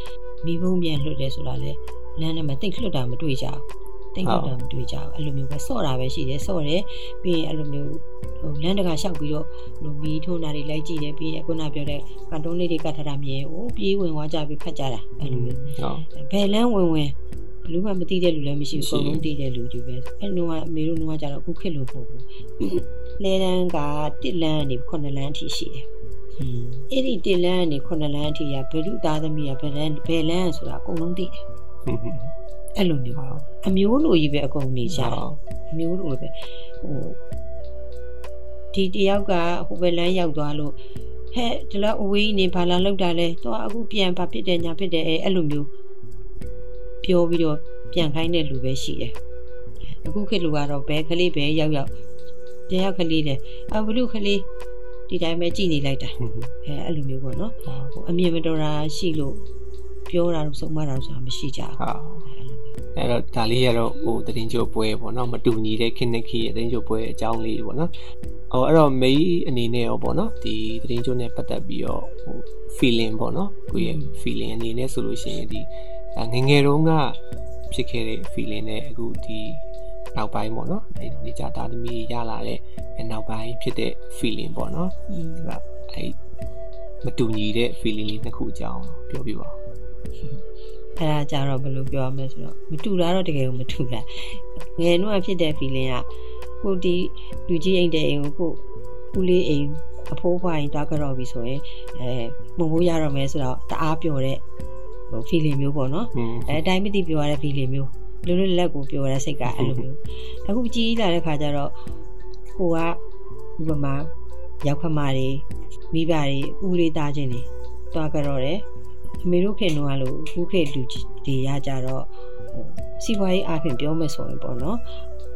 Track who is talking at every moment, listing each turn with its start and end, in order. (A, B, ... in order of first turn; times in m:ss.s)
0:00.4-0:17.1 A
0:04.2-0:04.5 B
0:15.2-0:16.0 B
0:17.6-0:25.9 A
0:18.7-0:19.2 B
0:26.4-0:31.4 A
0:31.8-0:32.3 B
0:32.8-0:37.2 A
0:33.1-0:33.4 B
0:34.9-0:35.4 B
0:38.7-0:40.8 A
0:41.3-0:45.7 A
0:47.0-0:49.1 A
0:49.9-0:51.9 A
0:52.7-0:54.5 A
0:55.1-0:59.4 A
0:56.2-0:56.5 B
0:57.6-0:57.9 B
1:00.1-1:02.6 A
1:01.8-1:02.3 B
1:02.9-1:07.9 B
1:08.5-1:19.6 B
1:13.7-1:14.2 A
1:20.1-1:26.2 B
1:25.1-1:25.5 A
1:27.0-1:29.6 B
1:31.0-1:36.0 A
1:36.6-1:38.6 A
1:39.1-1:44.4 A
1:45.1-1:51.7 A
1:46.1-1:46.6 B
1:49.5-1:49.8 B
1:52.6-1:53.0 A
1:53.6-1:54.1 A
1:54.6-1:58.6 A
1:59.2-2:04.8 A